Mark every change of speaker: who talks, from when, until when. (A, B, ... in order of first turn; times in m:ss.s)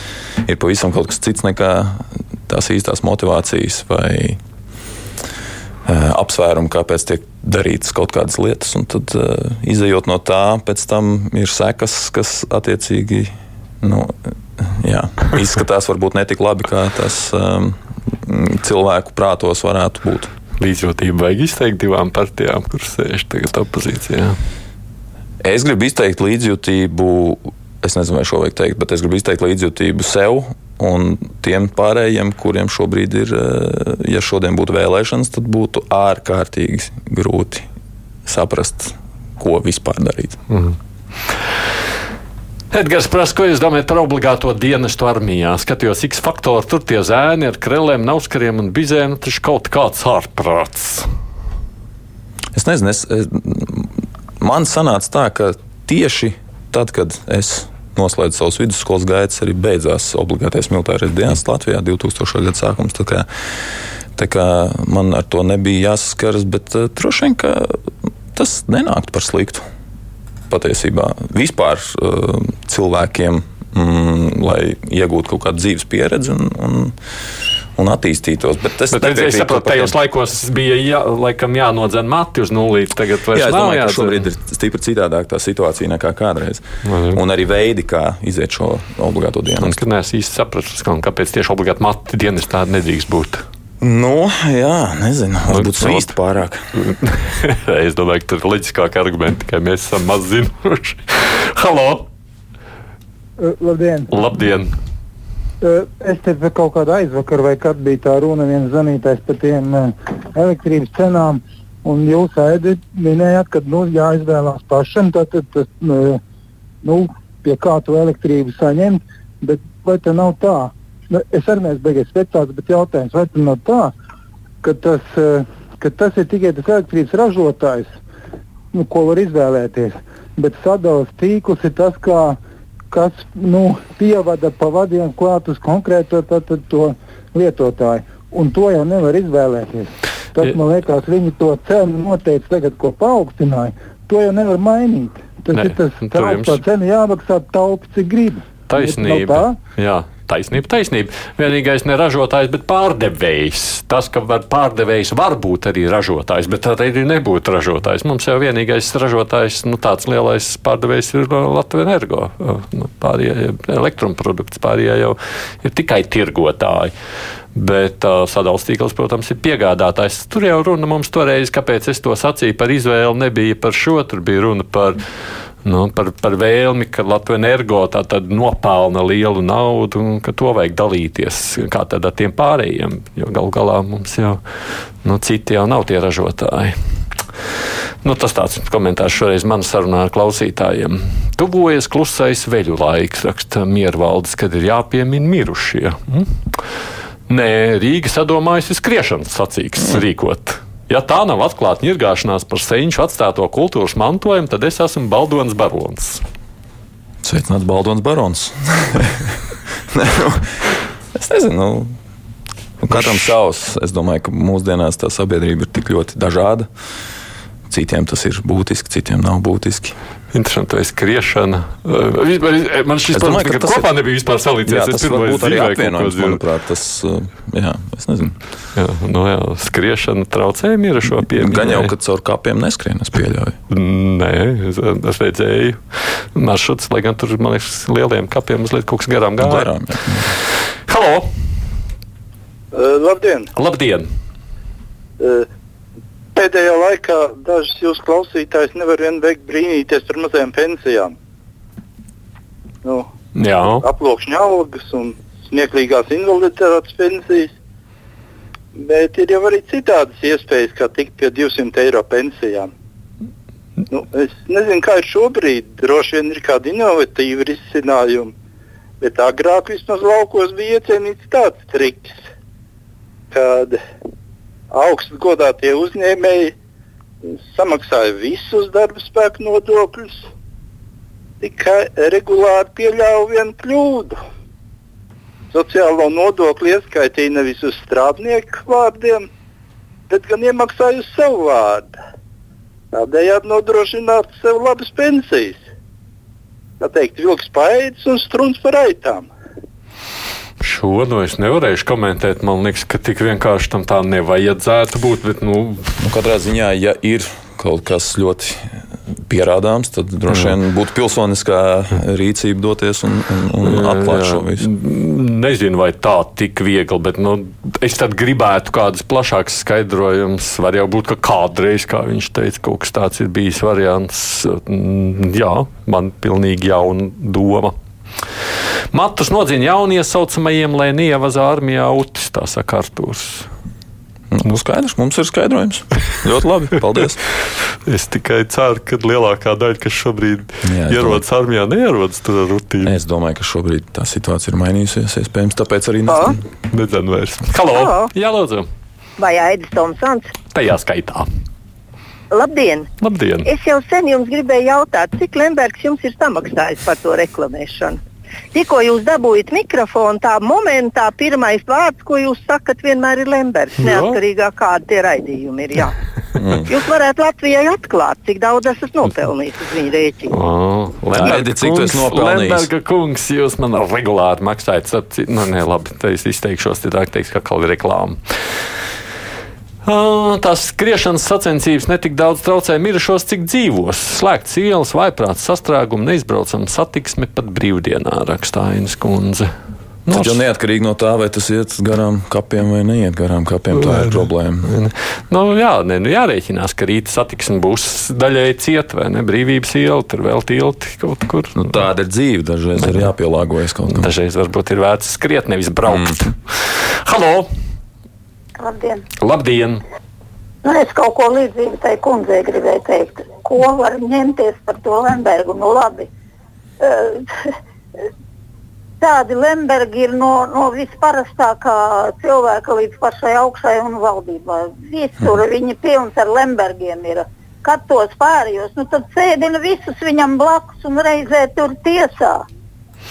0:00.4-0:04.4 A
0:05.9-0:20.3 A
0:20.6-0:24.4 B
0:25.4-0:37.7 A
0:38.3-0:40.4 A
0:40.5-0:40.8 B
0:42.7-0:51.1 B
0:52.5-1:03.3 A
1:04.2-1:07.8 A
1:08.3-1:09.7 A
1:10.5-1:17.0 A
1:17.8-1:20.0 A
1:18.9-1:24.3 B
1:23.3-1:29.8 A
1:26.8-1:27.2 B
1:29.6-1:33.4 B
1:33.8-1:36.7 A
1:35.5-1:36.1 B
1:36.8-1:42.1 B
1:43.4-1:44.1 C
1:44.1-1:44.7 B
1:45.6-1:56.2 C
1:56.8-2:03.9 C
2:04.6-2:08.0 C
2:08.7-2:12.4 C
2:12.9-2:29.6 C
2:25.5-2:26.6 B
2:28.7-2:46.9 B
2:47.5-2:55.0 B
2:55.6-3:04.4 B
3:05.0-3:06.8 B
3:08.0-3:16.6 B
3:17.3-3:26.2 B
3:27.2-3:29.4 A
3:29.9-3:31.9 A
3:32.8-3:36.7 A
3:32.9-3:33.3 B
3:37.7-3:40.0 A
3:40.3-3:46.4 B
3:43.1-3:43.9 A
3:44.7-3:48.4 A
3:48.8-3:51.9 B
3:51.1-3:53.6 A
3:53.7-3:59.7 B
3:59.4-4:00.3 A
4:00.9-4:01.3 B
4:02.7-4:03.5 D
4:03.6-4:04.1 B
4:05.2-4:05.5 D
4:06.4-4:11.1 D
4:13.4-4:13.9 B
4:13.8-4:17.5 D
4:18.8-4:22.7 D
4:23.9-4:28.3 D
4:29.0-4:32.2 D
4:33.3-4:33.8 D
4:34.7-4:36.5 D
4:37.3-4:40.3 D
4:41.4-4:44.2 D
4:45.5-4:49.3 D
4:50.1-4:51.9 D
4:52.9-4:55.6 D
4:56.8-4:59.3 D
5:00.6-5:05.9 B
5:06.0-5:14.7 A
5:10.3-5:10.6 B
5:13.6-5:27.8 B
5:28.9-5:33.5 B
5:34.3-5:37.2 A
5:37.9-5:42.9 B
5:40.6-5:41.2 A
5:42.8-5:46.4 A
5:46.1-5:46.4 E
5:46.7-5:48.7 B
5:47.7-5:48.1 E
5:49.2-5:50.3 E
5:50.5-5:51.3 B
5:52.3-5:52.9 E
5:53.0-5:53.5 B
5:53.4-5:58.0 E
5:58.5-6:06.0 E
6:03.8-6:04.2 B
6:06.4-6:06.7 A
6:06.7-6:10.4 E
6:10.3-6:18.2 B
6:11.2-6:12.7 A
6:19.8-6:29.5 B
6:30.0-6:30.4 B
6:30.1-6:34.7 A
6:33.8-6:41.8 B
6:41.6-6:44.1 A
6:42.8-6:43.1 B
6:43.9-6:47.5 B
6:48.6-6:49.0 F
6:49.2-6:49.8 B
6:50.6-6:56.1 F
6:56.8-6:57.2 F
6:59.0-7:12.4 F